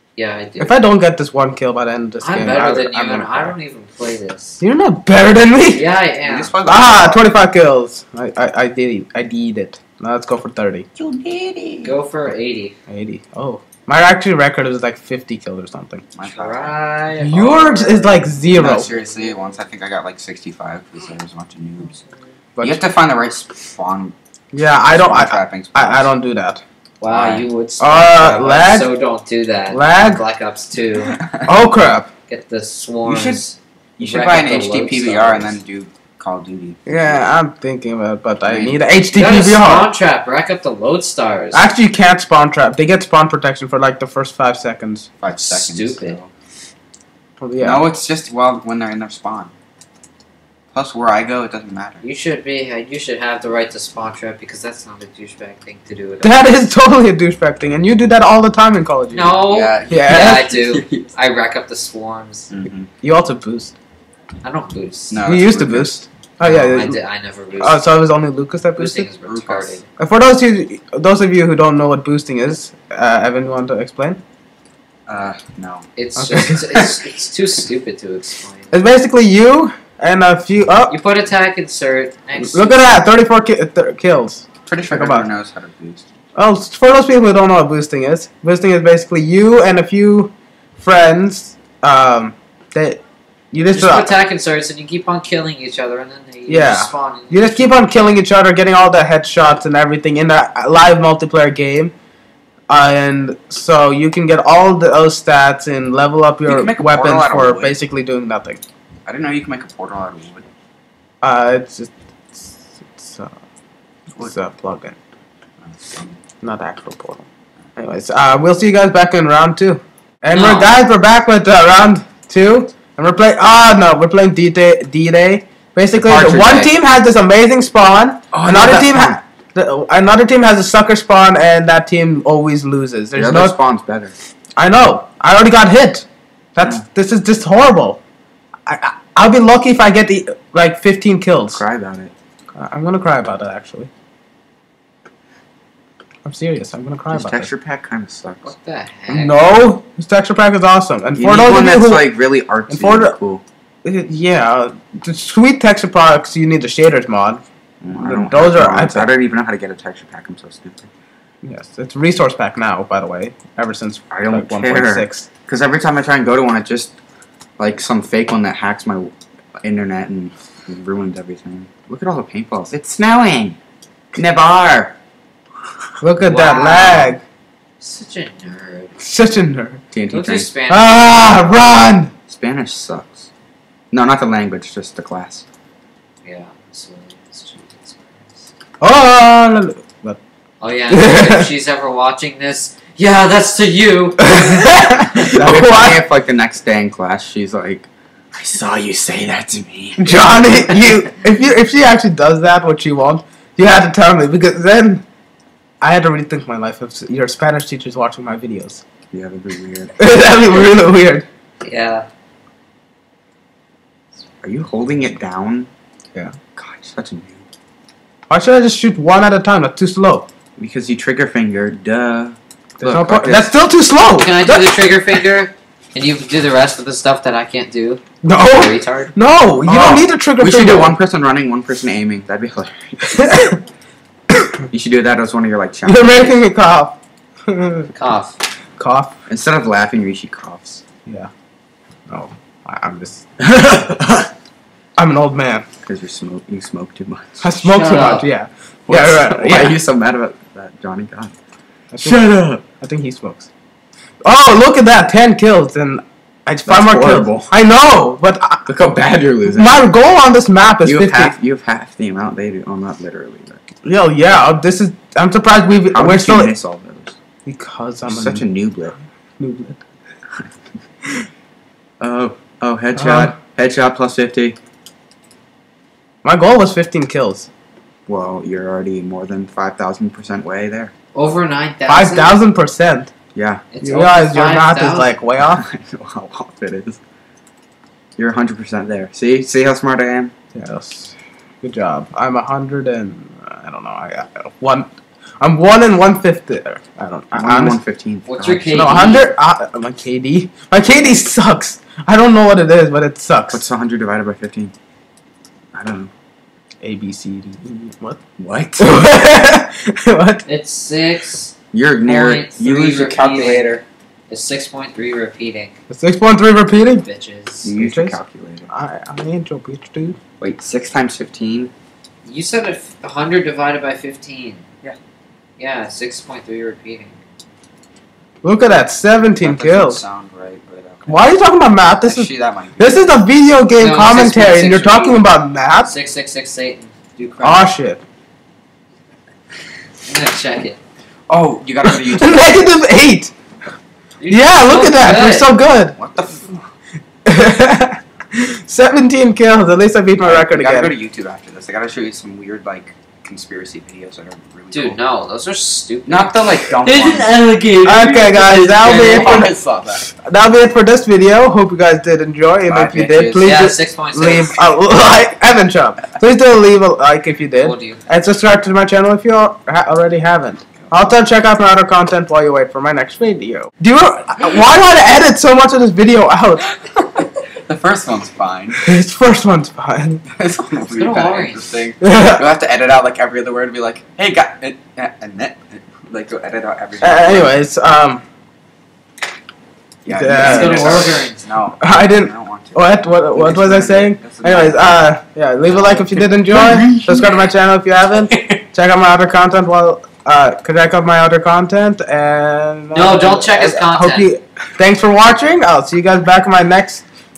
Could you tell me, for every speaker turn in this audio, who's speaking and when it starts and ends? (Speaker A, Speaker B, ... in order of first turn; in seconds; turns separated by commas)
Speaker A: 0.2-0.8, Speaker B: 0.6-3.6, Speaker A: 2.2-4.6, Speaker B: 4.6-5.9, Speaker A: 5.7-6.5, Speaker C: 6.2-7.3, Speaker B: 6.7-10.9, Speaker C: 11.0-12.0, Speaker A: 11.8-12.8, Speaker B: 12.9-16.1, Speaker C: 16.1-16.8, Speaker A: 16.2-19.6, Speaker B: 17.2-18.9, Speaker C: 18.5-21.9, Speaker B: 22.6-22.8, Speaker C: 22.6-24.1, Speaker B: 24.5-26.6, Speaker C: 24.9-26.1, Speaker A: 27.0-31.2, Speaker C: 27.1-27.5, Speaker B: 27.8-28.9, Speaker B: 29.7-30.2, Speaker C: 31.0-31.5, Speaker B: 31.5-32.1, Speaker A: 32.3-35.6, Speaker C: 33.0-33.4, Speaker C: 34.0-37.3, Speaker B: 36.9-39.9, Speaker C: 38.5-38.8, Speaker A: 39.1-41.7, Speaker B: 41.5-45.1, Speaker C: 45.2-46.3, Speaker A: 45.3-46.2, Speaker B: 47.4-47.9, Speaker C: 47.6-49.5, Speaker C: 50.7-52.0, Speaker A: 52.0-56.5, Speaker B: 56.2-60.5, Speaker A: 59.1-62.5, Speaker C: 59.5-61.1, Speaker C: 62.5-62.9, Speaker B: 63.0-63.8, Speaker A: 64.4-65.3, Speaker C: 65.1-66.0, Speaker B: 65.2-67.0, Speaker A: 66.4-67.8, Speaker B: 67.5-69.1, Speaker A: 68.8-69.9, Speaker C: 69.2-69.8, Speaker B: 70.0-74.2, Speaker C: 75.1-75.9, Speaker A: 76.0-78.7, Speaker B: 76.2-76.6, Speaker B: 78.7-81.0, Speaker A: 80.9-83.1, Speaker B: 82.4-85.3, Speaker C: 84.7-86.1, Speaker B: 86.3-94.2, Speaker A: 93.7-97.9, Speaker B: 96.5-101.9, Speaker B: 102.7-108.6, Speaker C: 106.5-107.8, Speaker C: 109.1-110.5, Speaker B: 111.2-113.3, Speaker B: 114.2-115.0, Speaker C: 115.6-116.2, Speaker B: 116.4-117.2, Speaker B: 117.8-133.6, Speaker A: 120.3-120.8, Speaker C: 126.0-126.7, Speaker C: 128.3-129.2, Speaker C: 133.2-134.2, Speaker B: 134.6-138.0, Speaker B: 138.7-141.6, Speaker C: 141.5-142.1, Speaker B: 142.6-143.9, Speaker B: 146.2-147.5, Speaker C: 147.1-148.5, Speaker A: 148.4-149.4, Speaker B: 149.1-152.2, Speaker C: 151.2-153.4, Speaker B: 152.7-153.2, Speaker B: 153.8-159.1, Speaker C: 157.8-160.9, Speaker B: 161.4-165.3, Speaker C: 164.1-167.0, Speaker C: 167.6-169.1, Speaker C: 169.6-173.6, Speaker C: 174.1-175.0, Speaker B: 176.0-177.2, Speaker A: 176.2-177.2, Speaker A: 177.8-178.9, Speaker B: 179.0-179.8, Speaker C: 179.9-180.5, Speaker A: 180.1-181.5, Speaker B: 180.7-182.1, Speaker C: 182.3-183.3, Speaker C: 183.9-185.5, Speaker A: 186.2-188.5, Speaker B: 188.8-190.2, Speaker A: 190.6-194.7, Speaker B: 190.9-191.5, Speaker B: 194.2-196.1, Speaker C: 195.1-200.7, Speaker B: 200.0-205.0, Speaker B: 205.8-208.8, Speaker C: 209.1-210.7, Speaker B: 210.0-211.3, Speaker A: 211.6-212.1, Speaker C: 214.4-215.7, Speaker C: 216.6-217.4, Speaker B: 218.3-220.3, Speaker C: 220.6-223.5, Speaker B: 222.8-224.8, Speaker A: 224.1-229.1, Speaker B: 228.2-231.0, Speaker C: 229.7-233.6, Speaker B: 233.0-233.6, Speaker C: 234.7-236.4, Speaker B: 235.8-237.0, Speaker B: 237.5-237.9, Speaker A: 237.9-238.4, Speaker B: 238.8-239.2, Speaker C: 239.3-240.8, Speaker B: 242.1-243.3, Speaker C: 243.4-244.3, Speaker B: 245.0-245.7, Speaker C: 245.8-247.4, Speaker B: 247.4-249.8, Speaker A: 247.6-248.3, Speaker C: 248.9-251.3, Speaker B: 251.9-253.5, Speaker C: 252.0-252.6, Speaker B: 254.2-258.6, Speaker C: 256.7-257.5, Speaker C: 258.7-259.9, Speaker B: 259.5-261.3, Speaker C: 260.9-263.6, Speaker B: 263.9-266.5, Speaker C: 265.9-267.2, Speaker B: 267.5-268.5, Speaker C: 268.1-268.9, Speaker B: 269.4-269.8, Speaker C: 272.0-274.6, Speaker B: 272.9-273.4, Speaker B: 276.2-277.5, Speaker C: 278.1-280.9, Speaker A: 281.1-282.4, Speaker B: 281.9-283.1, Speaker C: 283.4-283.6, Speaker A: 283.7-285.2, Speaker B: 283.8-285.6, Speaker C: 285.4-287.0, Speaker C: 288.2-290.3, Speaker B: 290.5-297.8, Speaker C: 297.4-298.9, Speaker A: 298.3-299.3, Speaker B: 298.7-303.6, Speaker C: 303.5-304.7, Speaker C: 305.7-306.1, Speaker B: 306.8-308.2, Speaker C: 308.4-309.0, Speaker B: 308.8-310.5, Speaker A: 310.4-313.8, Speaker C: 311.7-313.8, Speaker A: 314.3-315.8, Speaker B: 315.9-317.1, Speaker A: 316.8-317.7, Speaker C: 317.6-318.7, Speaker B: 317.8-320.2, Speaker C: 320.4-321.7, Speaker A: 322.2-324.6, Speaker A: 325.6-327.2, Speaker B: 328.4-330.0, Speaker C: 329.3-331.4, Speaker B: 331.1-335.9, Speaker C: 331.9-333.1, Speaker A: 333.8-335.3, Speaker A: 335.8-337.7, Speaker B: 337.4-338.0, Speaker A: 340.1-340.8, Speaker C: 341.3-342.9, Speaker B: 341.8-343.3, Speaker A: 344.2-345.6, Speaker B: 344.3-346.0, Speaker C: 346.0-346.7, Speaker B: 347.3-350.9, Speaker C: 350.2-355.0, Speaker A: 354.7-359.5, Speaker C: 356.1-357.4, Speaker B: 357.8-359.5, Speaker C: 358.7-360.1, Speaker B: 360.1-376.8, Speaker C: 362.7-363.6, Speaker A: 363.4-364.7, Speaker A: 367.6-368.0, Speaker C: 377.6-378.8, Speaker B: 378.8-380.2, Speaker C: 380.3-387.6, Speaker A: 380.9-381.7, Speaker B: 382.0-382.4, Speaker B: 387.0-388.2, Speaker C: 390.0-395.0, Speaker B: 390.1-391.2, Speaker A: 390.3-391.4, Speaker B: 391.8-407.1, Speaker C: 395.7-397.4, Speaker A: 402.9-404.3